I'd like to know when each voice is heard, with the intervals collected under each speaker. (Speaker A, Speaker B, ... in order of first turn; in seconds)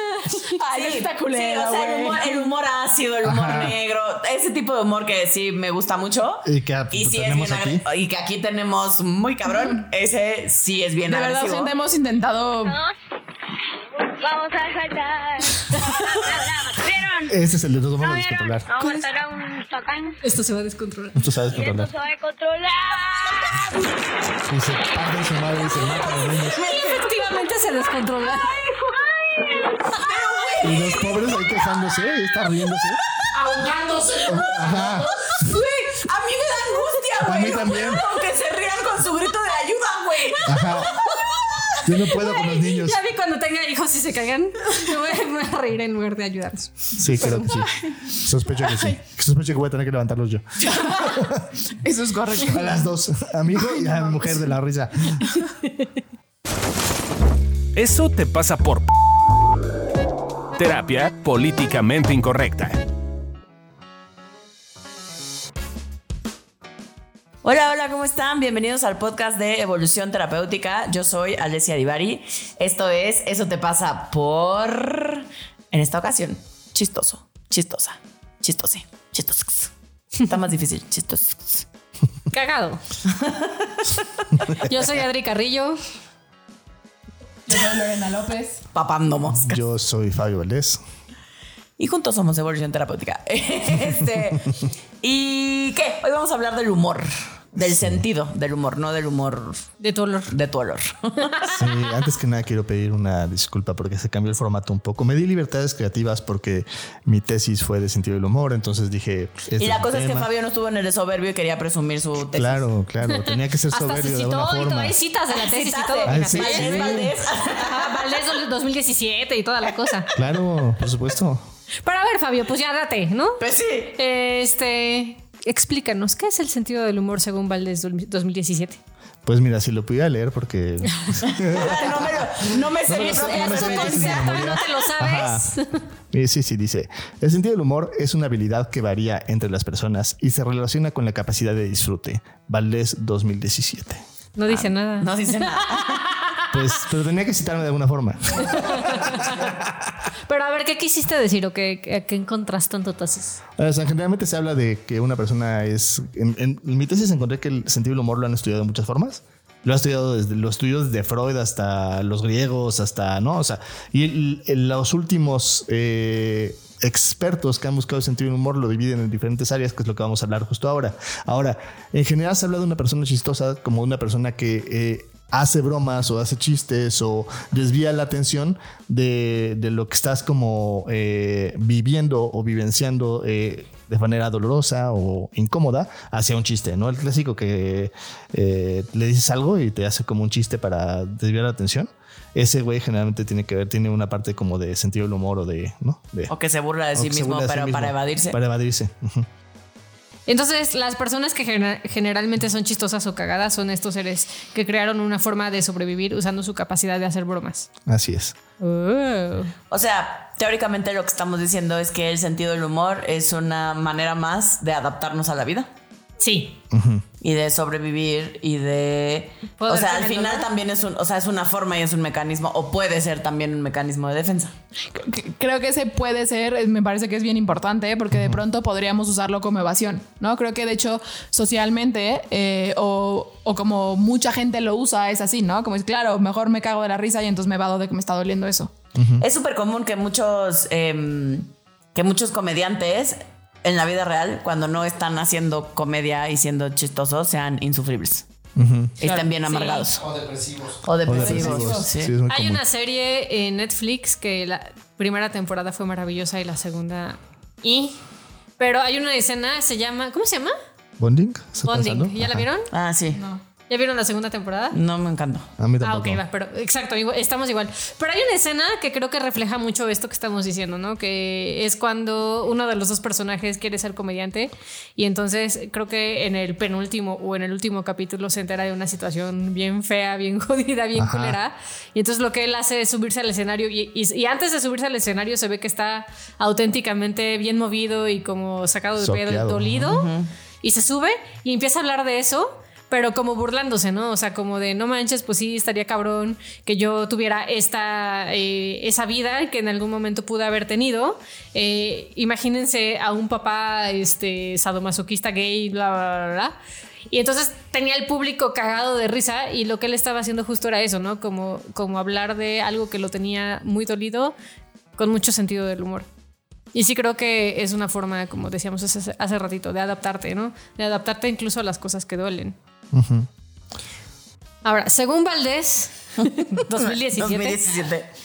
Speaker A: 0.4-2.5, 9.5-9.8, 11.1-12.8, 18.8-19.1, 47.2-47.9, 50.6-51.3, 51.8-52.8, 53.7-54.3, 87.5-88.6, 224.9-238.7, 251.2-251.9, 263.1-263.4
Speaker B: 0.7-11.7, 30.0-31.0, 35.9-41.1, 67.4-79.7, 80.2-81.7, 83.1-84.0, 88.7-89.5, 91.8-99.7, 100.3-101.5, 109.6-112.7, 115.3-118.2, 123.4-124.0, 131.3-134.6, 144.5-146.1, 196.3-198.4, 209.7-215.7, 217.2-224.5, 239.2-248.2, 249.0-250.1, 250.8-252.1, 262.7-263.2, 264.7-265.5, 289.9-290.3, 326.8-328.1
Speaker C: 3.2-3.8, 6.4-7.8, 17.3-18.7, 21.2-21.9, 24.4-26.6, 30.6-33.0, 34.2-35.5, 37.2-38.0, 40.5-40.9, 41.8-43.0, 47.0-51.4, 52.5-55.3, 89.4-90.8, 97.6-98.0, 101.5-110.3, 112.3-115.0, 116.0-117.2, 120.2-121.5, 129.3-135.5, 136.1-144.0, 146.5-149.8, 153.6-196.3, 196.9-199.3, 207.9-208.4, 216.7-217.0, 228.1-228.4, 238.9-239.3, 248.6-249.0, 251.0-252.6, 261.0-262.5, 265.6-266.2, 280.9-281.4, 289.0-290.1, 322.9-323.3
Speaker D: 12.7-12.9, 14.2-17.4, 18.0-20.2, 21.5-23.6, 28.9-29.8
Speaker E: 20.2-21.2, 26.6-28.5, 42.1-47.3, 82.3-82.8, 84.6-85.8, 99.8-100.3, 113.1-117.0, 117.5-120.1, 121.8-123.4, 124.0-128.8, 132.9-135.8, 144.4-146.5, 148.5-149.4, 150.3-153.4, 200.3-207.7, 208.6-209.5, 216.2-216.6, 219.6-220.5, 249.5-249.8, 252.3-258.0, 258.6-260.5, 261.7-262.7, 263.7-264.8, 265.8-290.1, 290.6-306.6, 307.1-314.3, 315.0-316.1, 316.7-322.6, 324.6-327.6
Speaker F: 57.8-58.9, 60.5-62.8